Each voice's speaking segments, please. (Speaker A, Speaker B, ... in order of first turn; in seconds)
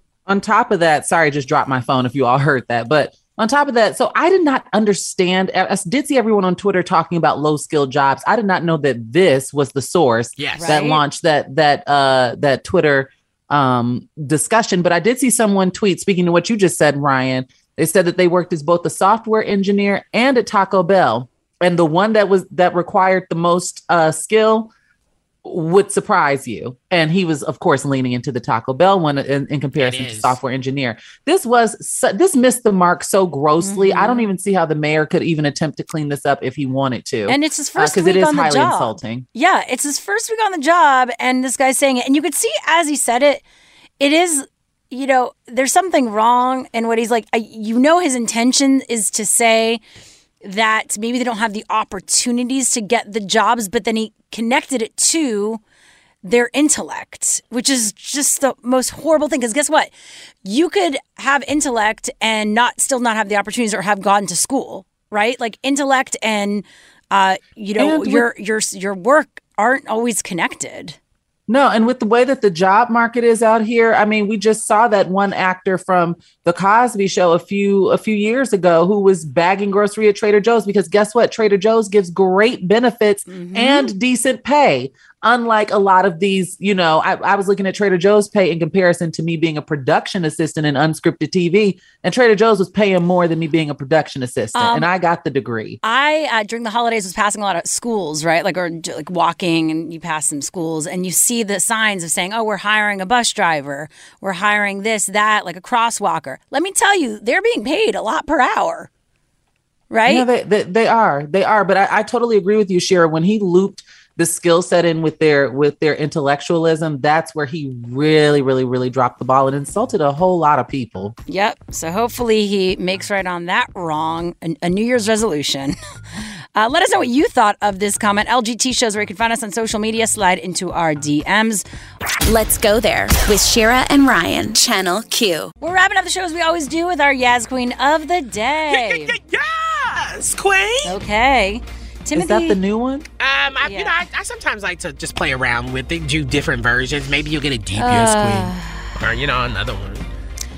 Speaker A: 0.3-24.7, 25.4-39.2, 67.8-68.2, 71.5-95.8, 110.0-121.1, 142.1-143.0
Speaker B: 10.4-10.8, 29.8-30.4, 138.7-140.9, 143.2-150.0
Speaker C: 10.6-11.0, 33.6-34.3, 37.3-43.4, 44.0-49.8, 50.4-55.6, 56.2-59.9, 60.4-71.0, 83.3-83.9, 94.5-94.9, 95.8-108.9, 109.9-110.2, 121.3-131.7, 135.6-139.1, 140.8-142.6, 143.6-143.9, 147.8-148.9
Speaker D: 132.2-135.5